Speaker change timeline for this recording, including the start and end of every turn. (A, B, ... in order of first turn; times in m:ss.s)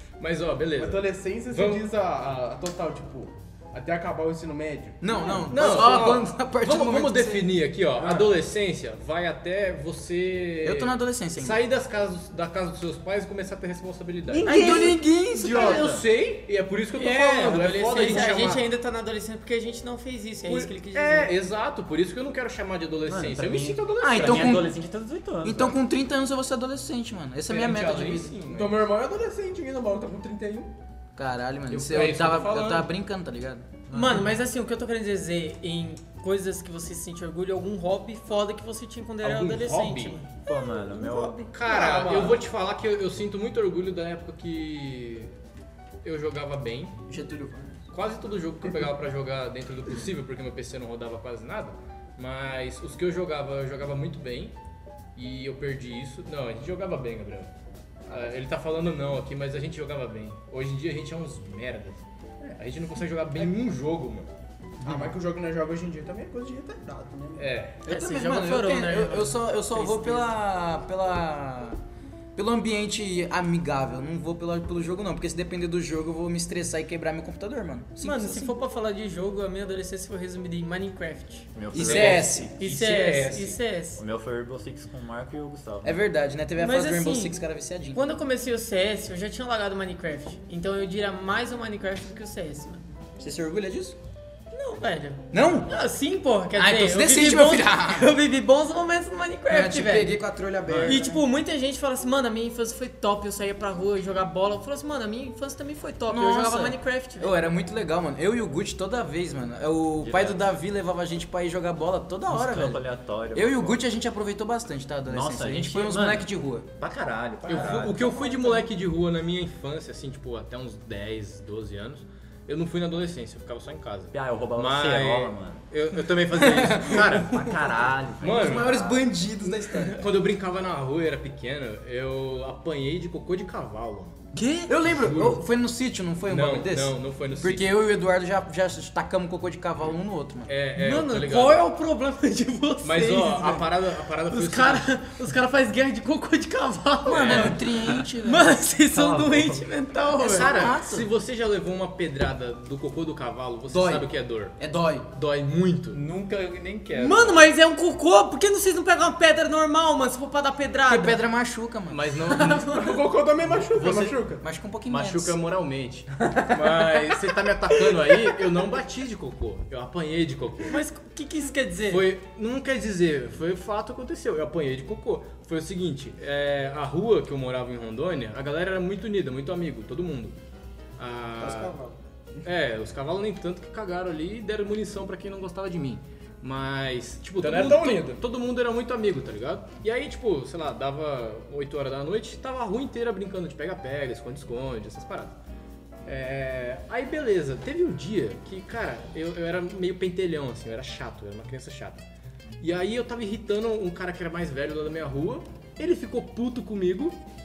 0:00.2-0:01.8 A
0:00.8-0:05.0 B
0:05.0-0:07.5 C
0:05.3-0:18.6 A
0:05.5-0:06.2 B
0:08.0-0:08.3 B
0:10.6-0:11.6 C
0:14.3-0:16.0 D
0:14.4-0:15.9 C
0:17.0-0:21.3 E
0:20.4-0:24.6 A
0:23.0-0:25.8 D
0:24.0-0:24.7 C
0:25.4-0:28.4 C
0:27.5-0:28.8 A
0:28.5-0:30.7 B
0:31.2-0:33.8 C
0:31.7-0:32.9 A
0:33.9-0:34.3 D
0:33.9-0:41.4 E
0:39.2-0:40.2 A
0:40.4-0:41.5 D
0:41.5-0:45.3 A
0:41.6-0:42.4 B
0:46.0-0:47.0 A
0:47.1-0:47.8 C
0:47.9-0:54.5 A
0:55.2-0:57.5 A
0:58.1-1:04.3 A
1:04.8-1:07.5 B
1:04.8-1:05.1 C
1:07.4-1:07.8 A
1:07.8-1:11.8 C
1:07.9-1:10.3 E
1:12.3-1:18.6 C
1:18.0-1:21.5 E
1:21.5-1:22.5 D
1:21.7-1:22.5 C
1:21.8-1:23.6 A
1:22.6-1:24.0 E
1:24.0-1:26.0 D
1:25.8-1:28.0 C
1:26.6-1:27.4 E
1:27.9-1:32.8 E
1:33.2-1:34.0 C
1:34.5-1:40.2 E
1:35.3-1:35.7 C
1:36.5-1:38.2 C
1:39.5-1:41.2 C
1:40.7-1:41.0 D
1:40.8-1:47.4 E
1:46.1-1:52.8 C
1:50.0-1:50.4 D
1:52.3-1:53.8 D
1:53.3-1:56.7 C
1:55.1-1:58.2 D
1:57.5-2:07.5 A
2:04.1-2:05.6 D
2:06.4-2:07.0 E
2:07.2-2:09.1 D
2:08.2-2:08.7 A
2:08.3-2:10.0 C
2:09.7-2:10.0 E
2:10.0-2:14.2 A
2:14.4-2:14.7 E
2:14.6-2:20.5 C
2:14.9-2:15.4 A
2:16.3-2:17.7 A
2:20.5-2:21.6 A
2:20.8-2:23.7 E
2:22.8-2:25.0 A
2:24.3-2:30.7 E
2:27.0-2:28.6 C
2:27.1-2:27.6 A
2:28.9-2:29.7 D
2:30.2-2:31.1 C
2:30.2-2:34.6 A
2:33.7-2:35.0 C
2:35.1-2:36.0 A
2:35.9-2:37.4 D
2:36.9-2:41.2 E
2:40.9-2:42.1 C
2:41.9-2:42.8 A
2:42.3-2:43.0 E
2:42.6-2:44.4 B
2:43.7-2:44.2 A
2:44.4-2:45.4 C
2:44.8-2:50.8 A
2:46.3-2:46.6 B
2:50.7-2:52.1 E
2:51.9-3:00.4 A
3:01.0-3:01.7 A
3:01.4-3:01.9 B
3:02.4-3:15.4 A
3:07.4-3:08.2 B
3:16.0-3:22.0 A
3:22.6-3:27.2 A